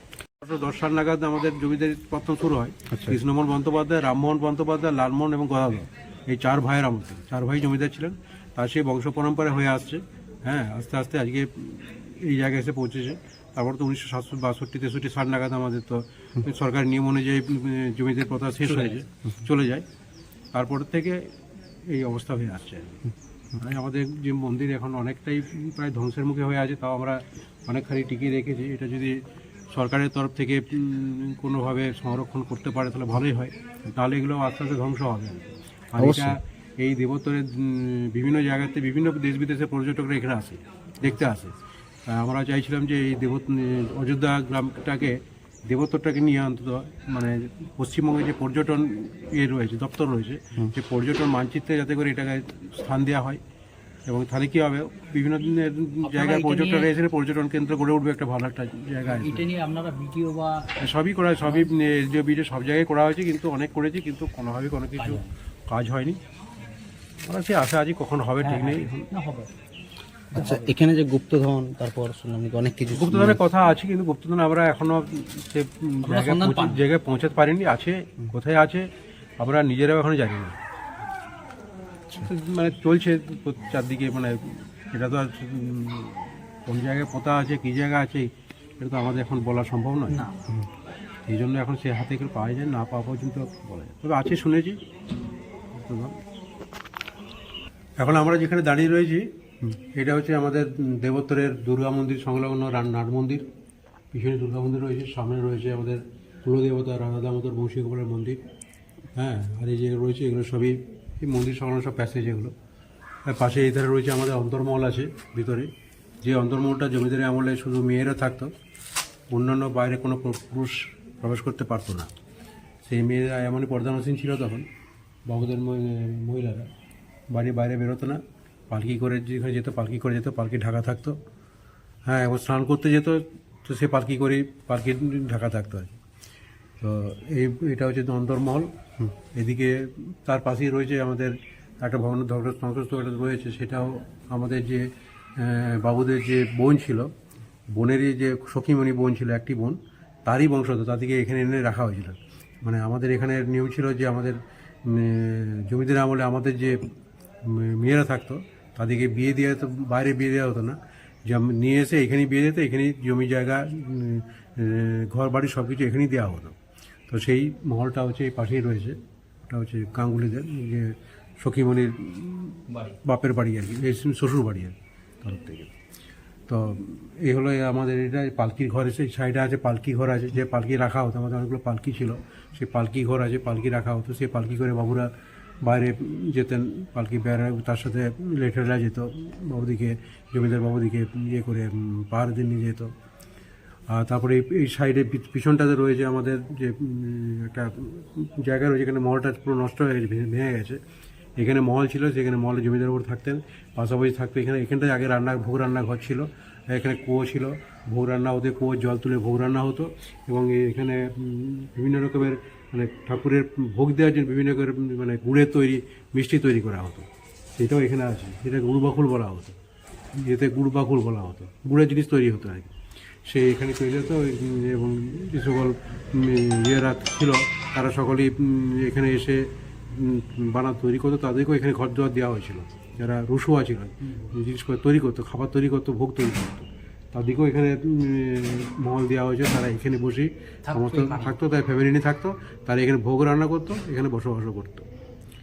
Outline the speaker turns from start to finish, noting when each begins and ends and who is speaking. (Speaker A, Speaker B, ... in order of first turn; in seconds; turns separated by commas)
Speaker A: 0.4-19.9, Speaker B: 18.6-19.1, Speaker A: 20.5-23.0, Speaker A: 23.6-29.2, Speaker A: 29.7-53.4, Speaker C: 36.0-36.4, Speaker A: 54.1-59.5, Speaker B: 56.0-56.9, Speaker B: 59.1-60.7, Speaker A: 60.8-66.2, Speaker B: 61.4-61.7, Speaker B: 65.0-65.3, Speaker A: 67.2-69.1, Speaker B: 68.4-69.5, Speaker B: 70.3-70.7, Speaker C: 70.3-73.4, Speaker A: 72.9-78.9, Speaker B: 76.0-76.9, Speaker A: 79.4-80.6, Speaker A: 82.2-90.3, Speaker B: 90.1-90.4, Speaker A: 91.3-94.8, Speaker A: 95.8-96.2, Speaker A: 98.0-103.5, Speaker A: 104.1-108.4, Speaker A: 109.2-112.5, Speaker A: 113.3-115.7, Speaker A: 116.2-118.5, Speaker A: 119.3-122.1, Speaker A: 122.8-124.7, Speaker A: 125.3-126.7, Speaker A: 127.3-131.2, Speaker A: 132.1-135.9, Speaker A: 136.8-147.1, Speaker A: 147.7-156.9, Speaker A: 157.4-166.6, Speaker A: 167.1-175.7, Speaker B: 172.7-172.9, Speaker A: 176.5-185.1, Speaker A: 185.6-192.9, Speaker A: 193.9-200.8, Speaker A: 201.4-219.6, Speaker A: 220.1-222.7, Speaker A: 223.2-244.9, Speaker B: 240.7-241.4